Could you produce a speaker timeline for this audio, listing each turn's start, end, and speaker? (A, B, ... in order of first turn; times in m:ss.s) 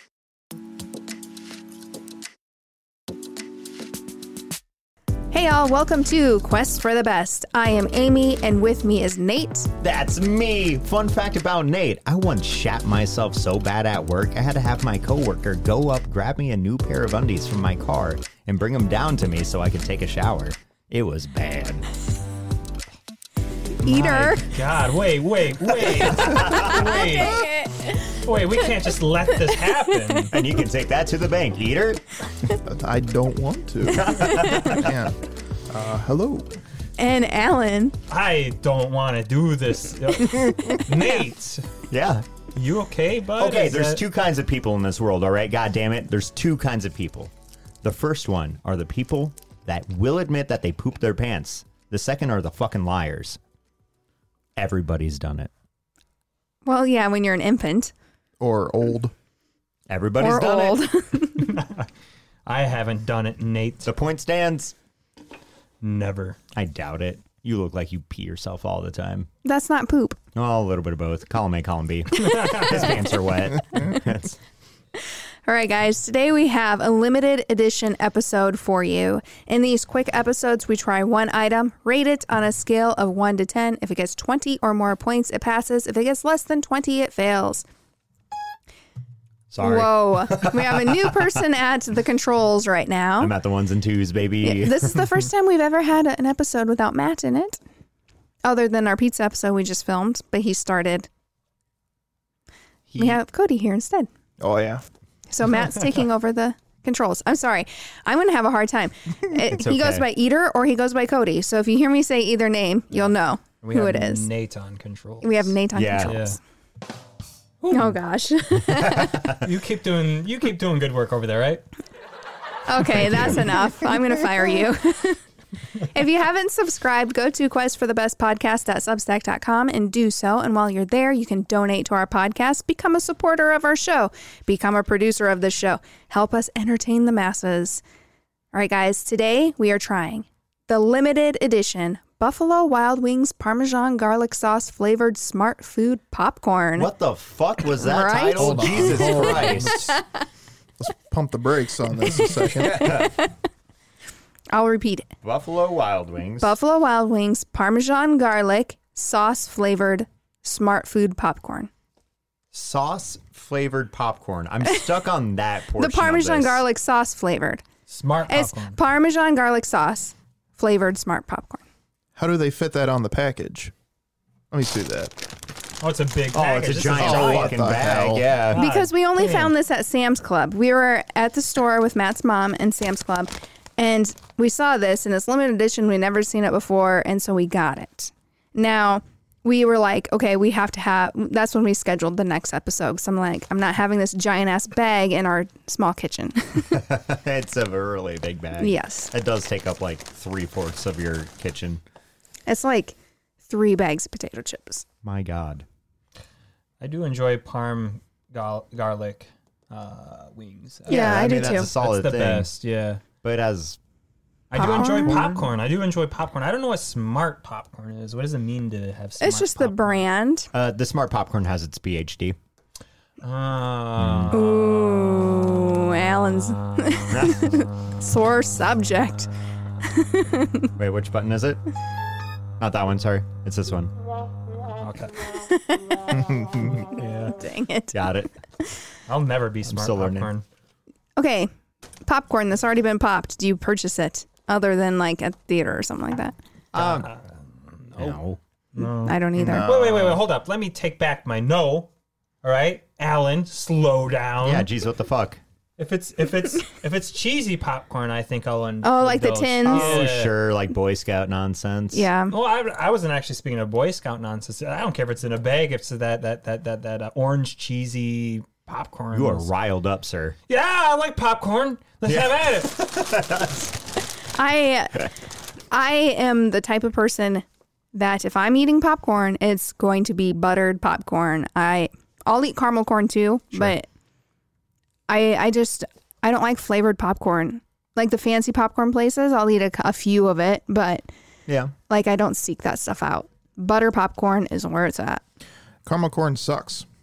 0:05.3-0:09.7 A
0:09.8-0:21.9 B
0:23.8-0:24.5 A
0:23.8-0:27.5 C
0:25.8-0:27.0 B
0:26.3-0:28.2 A
0:28.1-0:30.3 C
0:29.5-0:30.2 A
0:30.3-0:32.0 B
0:32.6-0:35.2 D
0:33.9-0:35.0 B
0:34.5-0:34.8 A
0:35.7-0:36.5 D
0:37.0-0:38.0 A
0:38.1-0:41.6 C
0:41.9-0:42.2 B
0:42.6-0:44.0 C
0:43.4-0:47.3 B
0:47.8-0:53.4 B
0:54.6-0:55.5 B
0:56.6-0:57.9 A
0:58.4-0:59.1 D
0:59.9-1:00.8 B
1:00.2-1:01.6 A
1:01.4-1:01.9 C
1:02.5-1:03.9 C
1:03.8-1:04.7 B
1:05.8-1:06.4 C
1:06.6-1:09.3 B
1:09.4-1:10.2 A
1:10.3-1:14.4 B
1:12.2-1:12.9 A
1:12.2-1:12.8 C
1:15.5-1:27.6 A
1:29.5-1:31.4 B
1:29.6-1:33.3 A
1:33.2-1:35.1 B
1:34.4-1:37.6 A
1:38.4-1:41.1 A
1:42.9-1:43.2 B
1:43.0-1:44.1 A
1:44.4-1:44.8 D
1:45.3-1:54.3 A
1:49.5-1:50.1 B
1:53.6-1:55.5 C
1:55.2-1:56.4 A
1:55.7-1:56.2 B
1:56.1-1:56.4 C
1:57.6-1:58.0 C
1:57.7-1:59.3 A
1:58.7-1:59.5 B
1:59.4-2:01.6 C
2:02.7-2:05.2 A
2:02.9-2:03.6 C
2:05.8-2:17.8 A
2:18.5-2:26.9 A
2:26.8-2:30.0 B
2:27.7-2:30.0 A
2:28.4-2:30.0 C
2:28.7-2:29.6 D
2:30.8-2:33.0 D
2:32.4-2:33.3 A
2:32.5-2:33.2 B
2:34.5-2:35.1 A
2:35.2-2:36.5 B
2:36.4-2:41.7 A
2:42.5-2:46.6 B
2:45.8-2:47.6 A
2:47.9-2:48.8 C
2:48.3-2:51.6 A
2:52.2-2:53.7 D
2:54.5-2:55.1 D
2:55.8-2:59.5 C
2:56.3-2:58.6 B
2:56.9-2:58.3 D
2:58.5-3:16.8 A
3:16.6-3:21.8 B
3:18.6-3:19.1 A
3:22.5-3:24.8 A
3:25.0-3:25.6 B
3:26.8-3:33.0 C
3:30.9-3:32.5 B
3:30.9-3:31.7 A
3:33.2-3:33.8 B
3:34.5-3:40.0 C
3:34.6-3:35.4 A
3:34.6-3:35.3 B
3:39.2-3:40.5 A
3:40.5-3:42.4 B
3:43.2-3:44.4 C
3:44.0-3:44.4 B
3:44.3-3:49.3 A
3:47.1-3:47.6 B
3:49.8-3:50.7 A
3:50.8-3:51.6 B
3:52.6-3:53.9 B
3:54.8-3:55.2 C
3:55.4-3:56.0 A
3:56.1-3:56.9 D
3:56.9-3:57.4 C
3:57.4-3:58.1 A
3:57.9-3:58.3 B
3:59.1-4:00.4 C
3:59.7-4:00.3 B
4:01.2-4:01.5 A
4:02.0-4:06.4 A
4:06.7-4:07.1 B
4:06.7-4:08.2 C
4:08.0-4:08.4 B
4:08.8-4:11.9 C
4:09.0-4:09.7 A
4:09.4-4:10.2 D
4:12.4-4:14.7 C
4:14.4-4:15.4 B
4:15.8-4:20.4 C
4:18.8-4:20.0 A
4:19.7-4:22.1 B
4:21.9-4:22.3 A
4:22.3-4:29.5 C
4:29.1-4:30.4 B
4:30.5-4:32.8 C
4:32.1-4:33.7 B
4:34.4-4:35.1 A
4:35.7-4:43.9 A
4:45.1-4:51.1 A
4:51.5-4:51.7 B
4:51.9-4:55.2 A
4:55.8-4:56.9 D